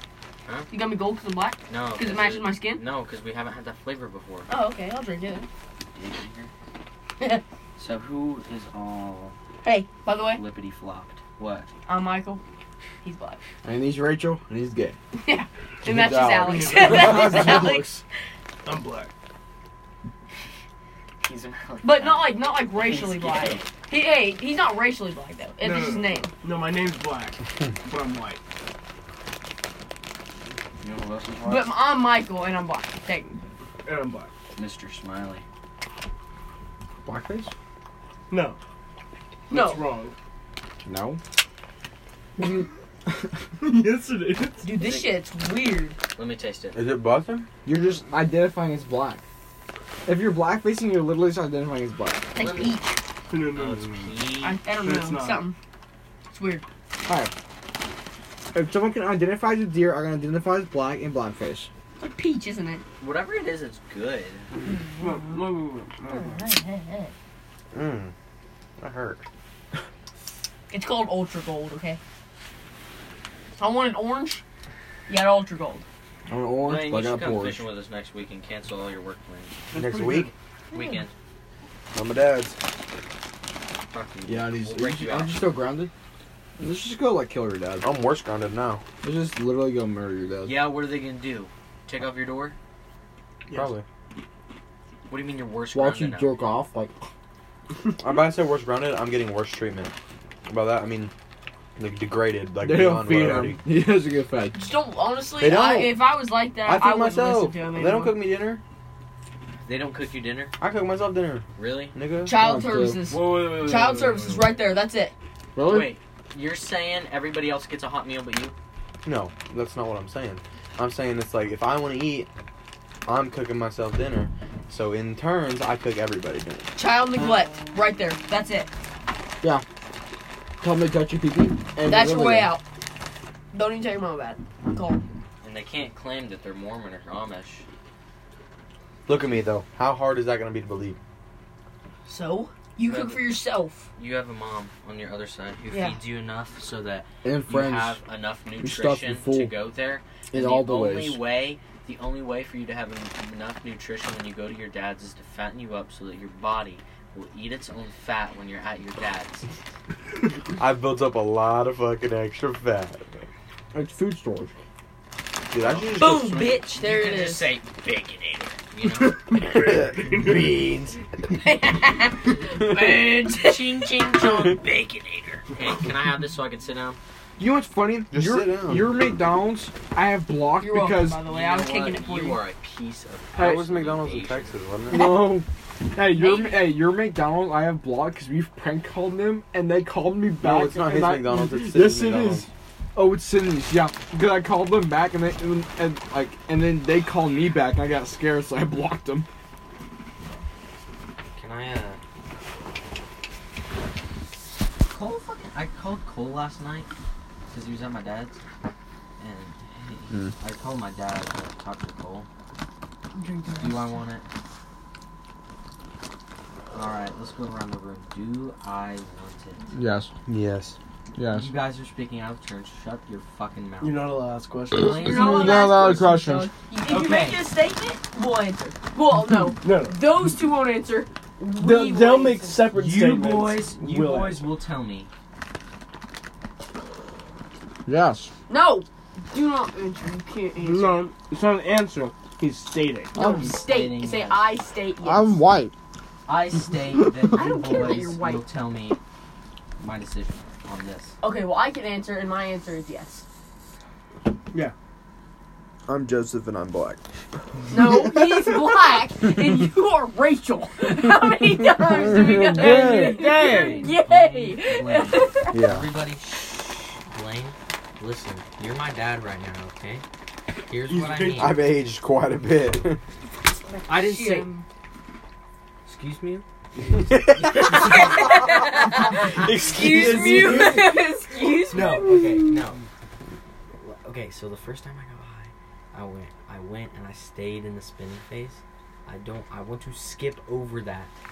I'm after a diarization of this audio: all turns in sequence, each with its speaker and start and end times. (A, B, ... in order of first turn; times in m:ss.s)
0:00.7-0:02.8 A
0:01.7-0:04.5 B
0:04.5-0:05.5 A
0:05.9-0:06.5 B
0:07.8-0:09.4 B
0:09.6-0:10.4 A
0:10.3-0:11.7 B
0:11.9-0:12.4 A
0:13.0-0:13.4 A
0:13.6-0:15.0 C
0:15.2-0:17.9 A
0:15.8-0:18.0 C
0:16.4-0:17.8 D
0:18.6-0:19.1 D
0:21.2-0:23.7 B
0:21.8-0:26.3 A
0:25.6-0:28.4 D
0:30.8-0:31.7 B
0:31.4-0:33.4 A
0:33.8-0:34.3 D
0:34.5-0:35.4 B
0:37.0-0:37.5 C
0:38.3-0:38.6 D
0:39.5-0:39.8 A
0:39.5-0:40.2 D
0:40.8-0:41.2 C
0:43.6-0:44.7 D
0:44.6-0:46.0 A
0:44.7-0:45.1 B
0:46.2-0:46.8 B
0:46.7-0:47.5 E
0:47.6-0:49.2 C
0:50.0-0:52.3 C
0:52.4-0:53.0 A
0:52.4-0:52.8 B
0:53.3-0:54.2 D
0:53.5-0:54.6 B
0:54.4-0:55.6 A
0:54.8-0:55.5 D
0:56.3-0:56.6 A
0:57.0-0:57.3 C
0:58.5-1:01.7 C
1:02.0-1:02.8 A
1:03.0-1:04.5 B
1:04.6-1:05.5 A
1:05.0-1:06.5 D
1:06.1-1:07.1 A
1:07.7-1:08.1 E
1:08.8-1:09.2 E
1:10.7-1:12.0 A
1:13.6-1:14.4 A
1:15.1-1:15.8 A
1:16.3-1:17.7 C
1:16.6-1:19.6 B
1:19.7-1:20.3 D
1:19.7-1:20.3 E
1:20.7-1:21.0 A
1:20.7-1:21.1 B
1:21.9-1:22.6 E
1:23.9-1:25.4 B
1:24.3-1:25.9 C
1:26.6-1:28.0 C
1:27.8-1:28.8 E
1:29.0-1:30.6 C
1:30.4-1:32.6 B
1:33.5-1:33.8 E
1:35.1-1:36.3 B
1:35.7-1:37.1 C
1:38.0-1:39.9 E
1:40.4-1:41.1 E
1:41.8-1:43.6 E
1:42.6-1:44.6 C
1:44.6-1:48.2 A
1:45.4-1:46.0 E
1:46.6-1:48.6 E
1:49.6-1:50.6 B
1:50.6-1:52.3 E
1:51.6-1:52.0 B
1:52.2-1:55.1 A
1:52.4-1:53.0 C
1:53.1-1:54.5 B
1:55.6-1:55.9 C
1:55.6-1:58.6 B
1:59.0-2:02.3 E
2:03.1-2:06.7 E
2:06.8-2:08.7 A
2:07.2-2:07.5 B
2:10.6-2:12.5 C
2:11.8-2:12.6 A
2:13.5-2:15.0 A
2:15.4-2:17.6 B
2:19.1-2:21.0 E
2:22.1-2:23.9 A
2:22.8-2:23.3 B
2:24.0-2:39.5 B
2:25.7-2:26.0 A
2:27.2-2:28.0 C
2:28.6-2:29.5 C
2:30.3-2:31.2 C
2:40.5-2:43.2 E
2:43.7-2:44.5 C
2:45.5-2:46.6 E
2:45.6-2:49.6 B
2:46.0-2:47.5 A
2:49.3-2:50.5 D
2:49.4-2:51.0 E
2:51.3-2:53.9 A
2:52.6-2:57.0 B
2:54.2-2:54.6 E
2:57.4-3:01.2 C
2:58.1-2:58.9 E
3:00.6-3:02.4 A
3:01.1-3:04.6 B
3:03.4-3:05.0 E
3:04.9-3:19.3 C
3:04.9-3:05.3 A
3:06.0-3:06.8 A
3:10.4-3:12.5 E
3:21.4-3:22.0 B
3:24.9-3:26.9 B
3:27.5-3:28.4 B
3:29.2-3:32.3 B
3:33.2-3:34.0 A
3:33.6-3:34.3 B
3:36.7-3:39.7 B
3:39.7-3:40.1 C
3:40.3-3:40.8 E
3:41.2-3:41.5 C
3:41.2-3:44.1 B
3:43.8-3:45.4 D
3:44.7-3:45.8 B
3:44.8-3:46.5 C
3:44.8-3:52.6 A
3:46.8-3:47.4 B
3:49.6-3:50.1 D
3:51.6-3:54.5 D
3:52.7-3:55.1 B
3:57.9-3:58.3 C
3:58.5-4:01.0 A
4:00.6-4:03.2 D
4:03.2-4:05.4 A
4:03.2-4:04.6 B
4:03.2-4:03.5 C
4:05.0-4:05.7 C
4:06.3-4:09.0 B
4:07.3-4:08.4 A
4:09.8-4:11.2 B
4:11.2-4:13.2 A
4:15.9-4:17.0 E
4:17.7-4:25.6 A
4:17.8-4:18.5 E
4:21.8-4:22.6 E
4:22.1-4:30.0 B
4:22.2-4:23.2 C
4:22.6-4:24.0 D
4:25.5-4:25.9 E
4:30.7-4:31.6 B
4:30.9-4:31.6 D
4:31.3-4:33.0 E
4:33.8-4:34.6 A
4:33.8-4:34.5 B
4:35.9-4:36.4 B
4:36.9-4:40.8 E
4:37.5-4:40.9 B
4:37.7-4:42.0 A
4:41.7-4:42.4 D
4:41.7-4:42.9 B
4:43.8-4:51.1 B